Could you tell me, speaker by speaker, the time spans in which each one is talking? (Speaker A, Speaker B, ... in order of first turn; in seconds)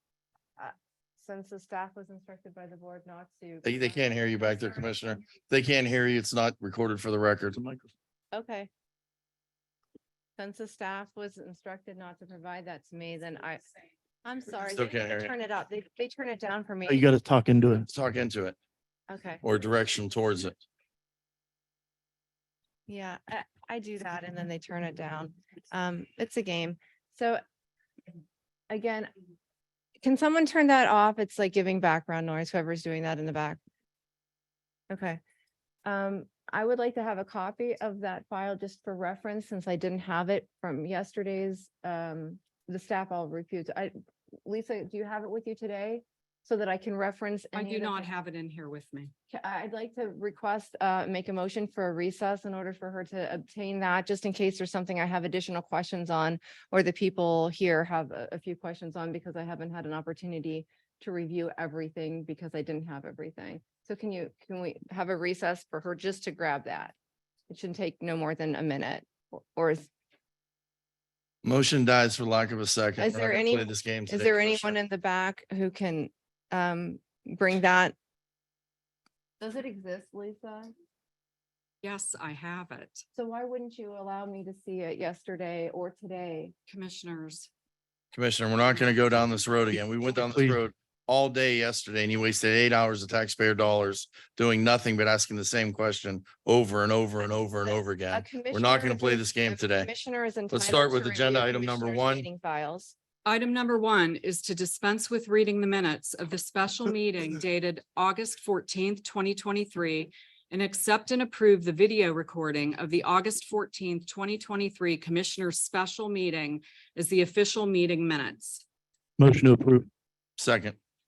Speaker A: 0.6-4.1, 8.3-8.7, 10.4-13.6, 14.2-17.1, 19.1-19.4, 22.9-27.4, 28.7-29.1, 30.0-33.6, 34.9-35.2, 35.9-43.9, 44.5-48.1, 49.3-67.0, 67.5-69.9, 73.0-77.9, 79.4-80.7, 83.2-86.5, 98.1-103.0
Speaker B: 3.6-7.7, 14.7-15.3, 17.9-18.6, 19.4-20.6, 71.4-74.8, 88.1-99.9, 100.5-102.3, 120.4-120.8
Speaker C: 16.9-17.9, 90.3-90.6, 119.2-119.9
Speaker D: 47.5-49.1, 81.8-83.0, 86.7-87.5, 103.2-118.6